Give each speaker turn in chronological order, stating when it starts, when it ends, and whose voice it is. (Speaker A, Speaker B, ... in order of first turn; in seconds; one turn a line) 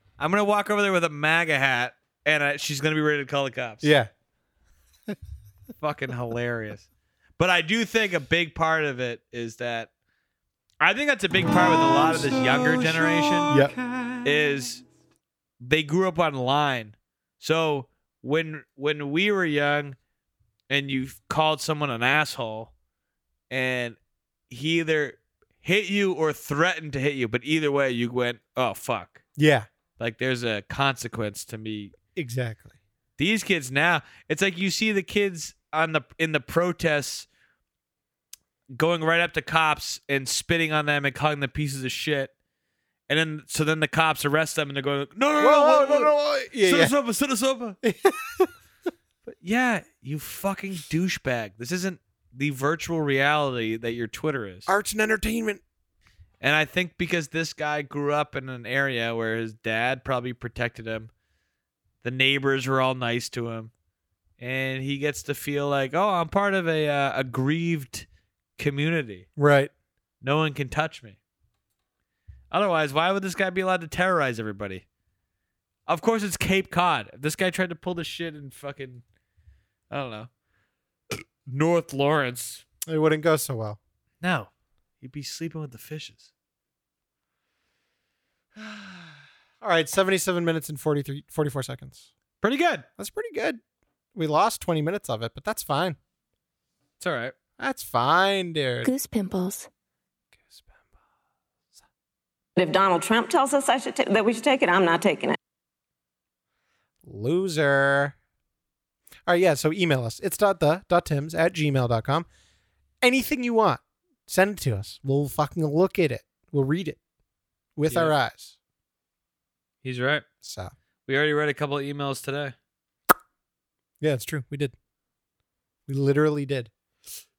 Speaker A: 0.2-3.9
Speaker B: 3.8-4.1
Speaker A: 5.8-9.9
Speaker A: 10.8-13.7
Speaker B: 13.5-13.7
Speaker A: 14.2-14.8
Speaker A: 15.6-20.0
Speaker A: 20.7-22.7
Speaker A: 23.5-24.0
Speaker A: 24.5-29.2
Speaker B: 29.4-29.7
Speaker A: 30.0-31.9
Speaker B: 32.1-32.8
Speaker A: 33.2-37.3
Speaker A: 38.7-42.3
Speaker A: 43.1-47.8
Speaker B: 45.4-46.9
Speaker B: 47.8-48.5
Speaker A: 49.2-54.7
Speaker B: 54.7-55.6
Speaker A: 56.4-61.1
Speaker A: 62.0-63.7
Speaker A: 64.4-69.3
Speaker B: 69.4-69.7
Speaker A: 70.2-71.2
Speaker A: 72.5-74.8
Speaker A: 75.9-79.0
Speaker A: 79.9-80.3
Speaker A: 81.1-82.6
Speaker B: 82.9-83.8
Speaker A: 84.2-84.5
Speaker A: 85.0-86.3
Speaker B: 88.5-92.1
Speaker A: 92.4-92.8
Speaker B: 93.0-93.6
Speaker B: 94.1-96.0
Speaker A: 97.0-97.3
Speaker B: 97.6-98.9
Speaker C: 98.8-99.7
Speaker C: 102.6-105.4
Speaker B: 107.0-108.1
Speaker B: 109.3-112.3
Speaker B: 113.0-117.0
Speaker B: 117.8-118.5
Speaker A: 117.9-118.1
Speaker A: 119.8-120.2
Speaker B: 120.4-120.7
Speaker A: 121.1-122.5
Speaker B: 124.0-124.7
Speaker B: 125.9-126.7